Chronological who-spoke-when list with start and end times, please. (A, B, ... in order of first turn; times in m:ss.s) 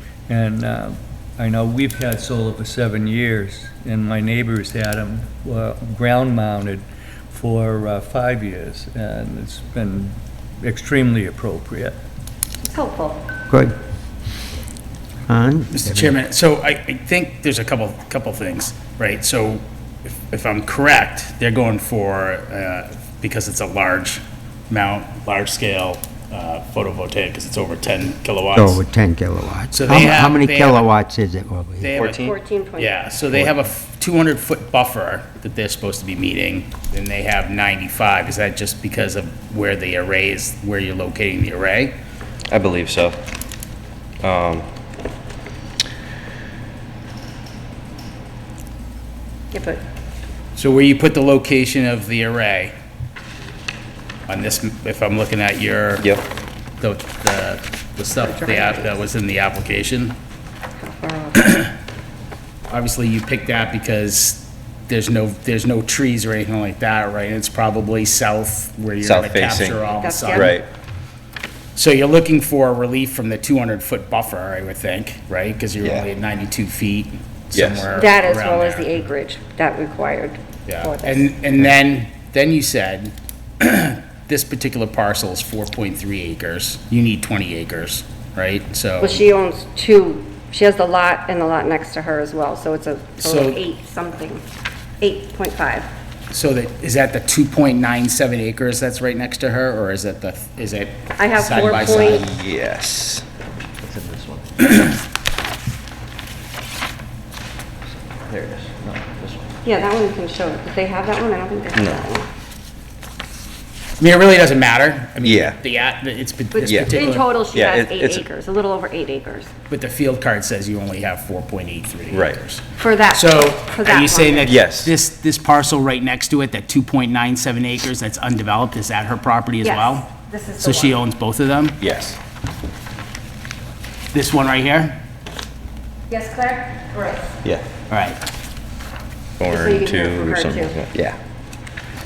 0:00.3-0:12.0 A
0:12.7-0:13.2 B
0:13.5-0:13.7 C
0:15.3-0:16.2 C
0:15.7-0:28.8 D
0:28.5-0:31.9 C
0:29.7-0:30.8 D
0:31.8-0:42.0 D
0:31.9-0:32.4 E
0:32.2-0:32.9 B
0:42.5-0:43.2 E
0:44.2-0:44.7 E
0:49.5-0:49.8 B
0:50.5-0:52.7 D
0:54.3-0:56.1 D
0:56.8-1:00.2 D
0:58.2-0:59.0 B
1:00.8-1:01.5 B
1:01.4-1:01.7 D
1:02.7-1:10.6 D
1:09.0-1:09.8 E
1:09.9-1:10.6 B
1:10.3-1:10.7 E
1:11.8-1:19.0 D
1:15.8-1:16.1 E
1:17.5-1:17.9 E
1:17.9-1:21.3 B
1:20.7-1:29.2 D
1:29.0-1:34.4 B
1:33.2-1:33.6 D
1:35.0-1:35.9 B
1:36.3-1:42.3 D
1:41.2-1:42.2 B
1:41.7-1:43.2 E
1:43.8-1:44.8 E
1:47.9-1:49.4 E
1:49.6-1:52.3 B
1:51.7-1:52.0 E
1:54.0-1:57.3 D
1:55.2-1:55.6 E
1:56.5-1:59.5 B
1:56.6-1:56.9 E
1:57.5-1:58.2 E
1:59.7-2:10.1 D
2:02.1-2:02.4 E
2:02.8-2:04.5 B
2:04.4-2:04.9 E
2:09.6-2:11.0 B
2:10.6-2:11.8 D
2:11.8-2:12.2 E
2:14.1-2:15.0 D
2:16.1-2:17.2 B
2:17.9-2:18.2 D
2:19.4-2:21.2 E
2:19.5-2:20.8 B